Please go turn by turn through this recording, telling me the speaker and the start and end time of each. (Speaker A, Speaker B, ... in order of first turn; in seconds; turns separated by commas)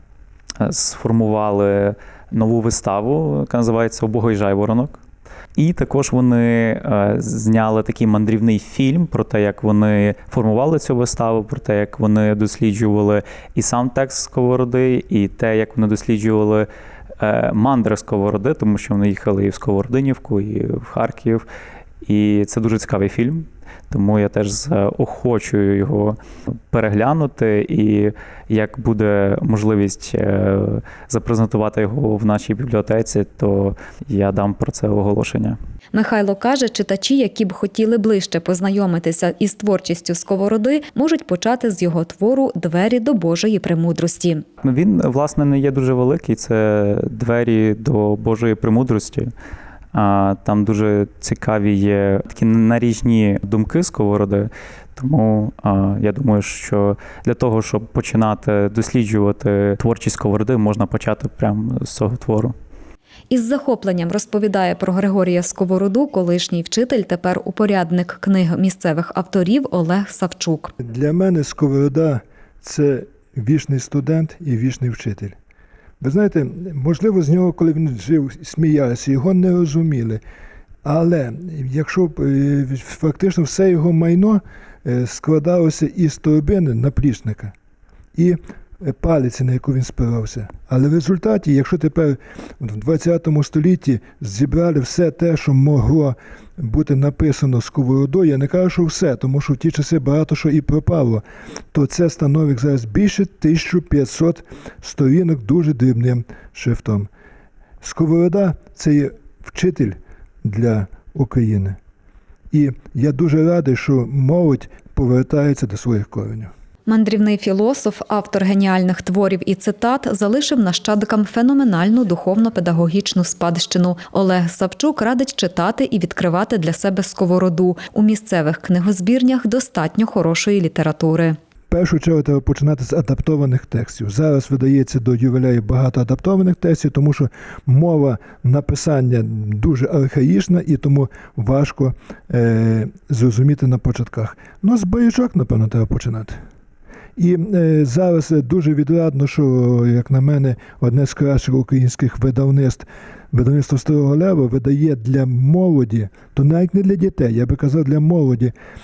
Speaker A: 0.6-5.0, Speaker A: 5.6-16.7, Speaker A: 17.2-21.4, Speaker A: 22.0-26.2, Speaker A: 26.7-35.6, Speaker B: 35.9-44.4, Speaker A: 44.6-49.3, Speaker A: 49.9-62.5, Speaker B: 63.3-70.7, Speaker C: 70.8-75.4, Speaker C: 76.0-80.2, Speaker C: 80.8-87.5, Speaker C: 88.2-107.1, Speaker C: 107.8-111.8, Speaker C: 112.5-116.5, Speaker B: 116.9-131.4, Speaker C: 131.7-146.4, Speaker C: 147.2-158.5